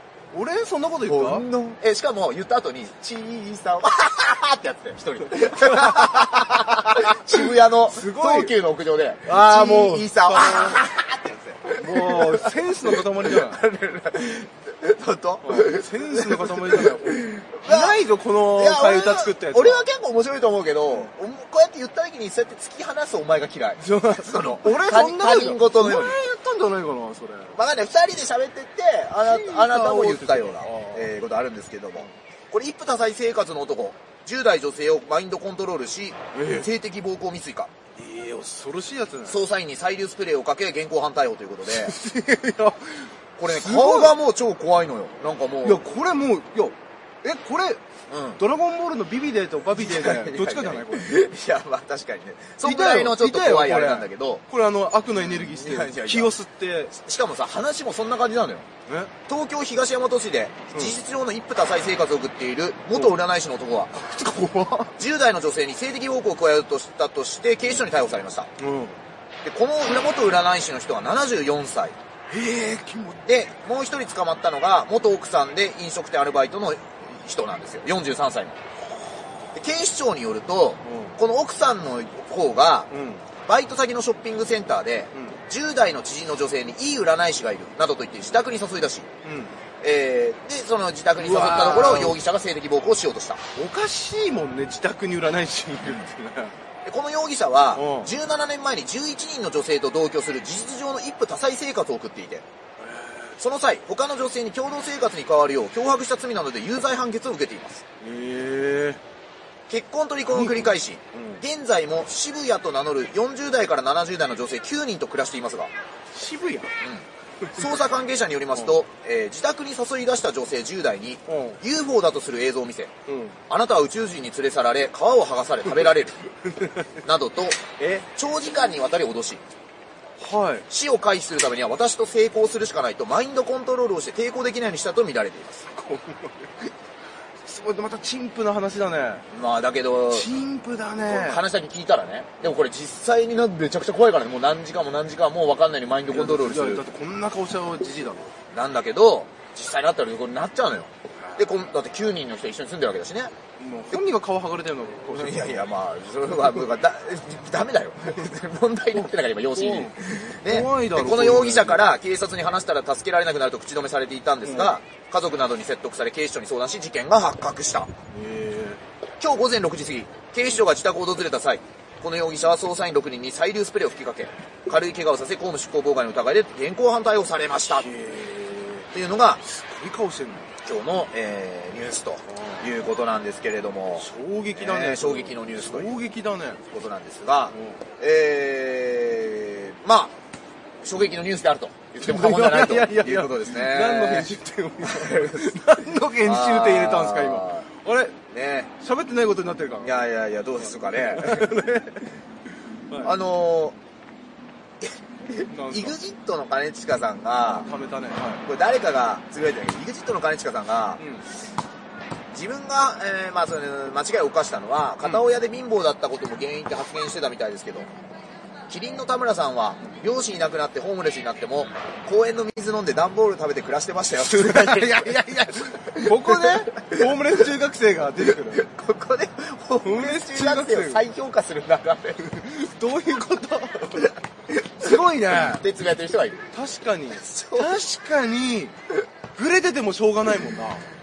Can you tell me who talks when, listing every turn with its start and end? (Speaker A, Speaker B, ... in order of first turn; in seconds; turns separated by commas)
Speaker A: 0.3-1.4, Speaker B: 1.1-26.2, Speaker A: 5.4-8.5, Speaker A: 9.2-10.8, Speaker A: 11.8-13.6, Speaker A: 15.4-19.8, Speaker A: 23.8-27.6, Speaker B: 27.5-37.7, Speaker A: 29.2-31.1, Speaker A: 36.3-36.7, Speaker A: 38.0-39.4, Speaker B: 39.2-42.0, Speaker A: 41.6-44.2, Speaker B: 43.4-45.9, Speaker A: 45.6-47.8, Speaker B: 48.1-48.4, Speaker A: 48.4-51.2, Speaker B: 49.8-54.4, Speaker A: 52.6-56.9, Speaker B: 55.1-56.3, Speaker B: 56.9-58.7, Speaker A: 58.9-59.1, Speaker B: 59.3-63.9, Speaker A: 60.7-61.0, Speaker A: 62.9-63.2, Speaker A: 63.9-64.9, Speaker B: 65.0-68.5, Speaker A: 68.6-69.0, Speaker B: 69.4-72.0, Speaker A: 72.3-73.2, Speaker B: 73.2-78.6, Speaker B: 79.5-82.9, Speaker A: 80.8-81.2, Speaker A: 82.9-83.2, Speaker B: 83.4-89.1, Speaker A: 85.1-85.4, Speaker A: 89.2-89.5, Speaker B: 89.8-93.4, Speaker A: 91.2-92.2, Speaker A: 93.5-96.5, Speaker B: 95.8-96.1, Speaker B: 96.8-102.4, Speaker A: 97.7-98.1, Speaker A: 102.8-103.4, Speaker B: 103.4-107.8, Speaker A: 108.0-109.0, Speaker B: 109.7-115.7, Speaker A: 110.2-111.4, Speaker A: 116.1-116.7, Speaker B: 116.8-122.9, Speaker A: 117.4-117.8, Speaker A: 121.3-121.6, Speaker A: 123.1-123.4, Speaker B: 123.5-126.2, Speaker A: 126.5-126.9, Speaker B: 127.0-129.4, Speaker A: 127.8-128.1, Speaker A: 130.2-130.7, Speaker B: 130.7-135.7, Speaker A: 135.7-136.7, Speaker A: 137.4-139.2, Speaker B: 139.3-140.3, Speaker A: 140.1-141.4, Speaker B: 141.0-146.8, Speaker A: 146.1-148.3, Speaker B: 148.5-153.3, Speaker A: 153.6-155.7, Speaker B: 155.1-167.9, Speaker A: 158.9-161.9, Speaker A: 164.4-164.8, Speaker A: 168.1-168.8, Speaker B: 169.2-177.9, Speaker A: 177.7-178.9, Speaker B: 178.9-179.4, Speaker A: 179.4-180.5, Speaker B: 180.6-186.0, Speaker A: 182.3-182.7, Speaker A: 184.0-186.6, Speaker B: 186.6-190.1, Speaker A: 187.5-187.8, Speaker B: 190.8-195.7, Speaker A: 192.0-198.2, Speaker B: 196.2-197.7, Speaker B: 198.3-198.7, Speaker A: 198.8-200.1, Speaker B: 199.8-201.8, Speaker A: 200.6-202.1, Speaker A: 202.9-203.1, Speaker B: 203.0-203.8, Speaker B: 204.8-207.7, Speaker A: 205.5-205.9, Speaker A: 207.5-208.4, Speaker B: 208.4-211.0, Speaker A: 211.0-211.2, Speaker B: 212.3-217.9, Speaker B: 218.7-227.1, Speaker A: 224.2-228.7, Speaker B: 228.5-232.2, Speaker A: 229.8-231.1, Speaker A: 232.2-234.1, Speaker B: 234.6-236.5, Speaker A: 234.8-235.6, Speaker A: 236.5-238.7, Speaker B: 237.1-237.7, Speaker A: 239.3-240.8